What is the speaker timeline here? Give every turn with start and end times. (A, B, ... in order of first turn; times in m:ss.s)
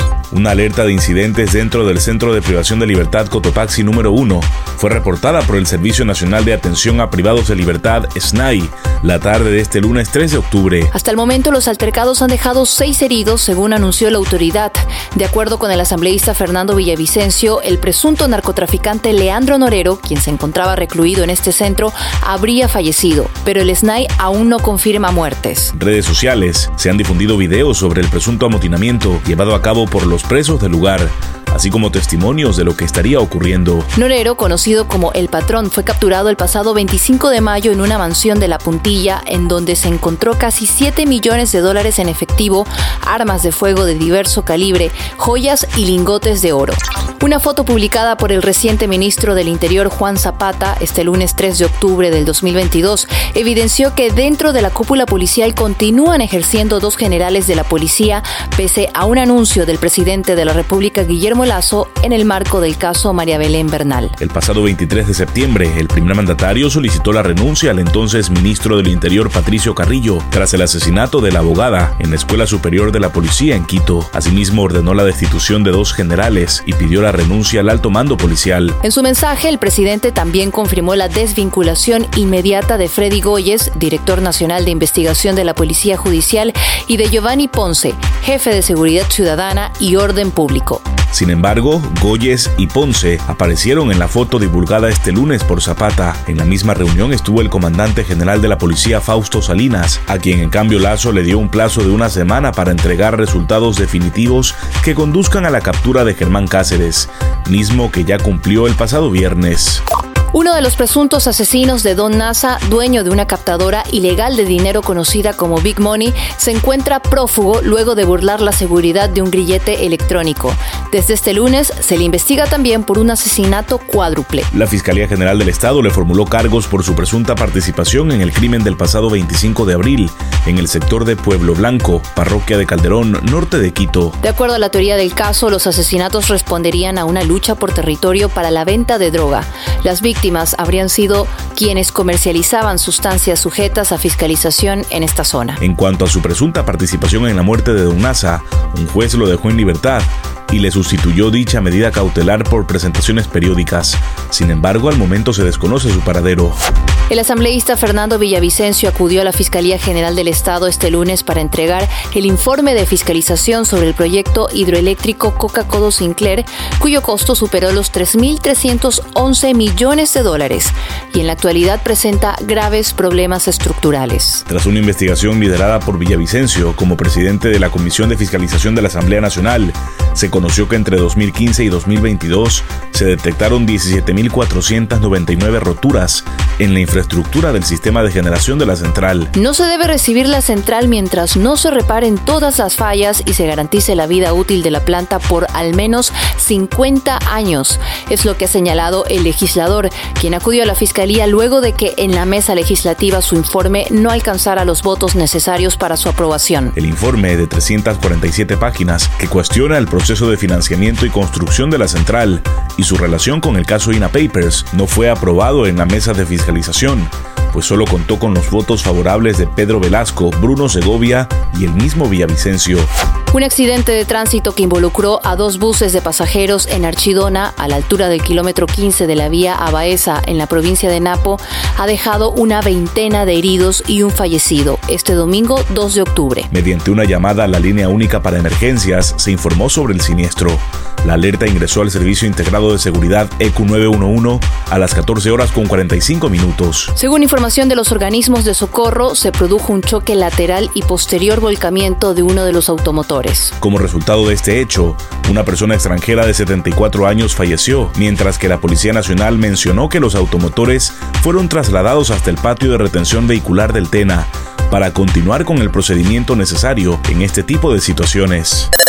0:00.3-0:10.9 A
0:10.9-0:25.7 B
0:25.7-0:33.9 A
0:33.9-1:04.2 B
1:04.2-1:18.8 A
1:18.8-1:30.8 B
1:31.1-1:49.8 A
1:50.3-2:04.5 B
2:04.5-2:14.2 A
2:14.2-2:25.6 B
2:25.6-2:36.6 A
2:37.1-2:54.4 B
2:54.5-3:09.3 A
3:09.3-3:26.7 B
3:26.7-3:42.9 A
3:43.3-3:56.5 B
3:56.5-4:06.9 A
4:07.0-4:13.5 B
4:13.6-4:28.7 A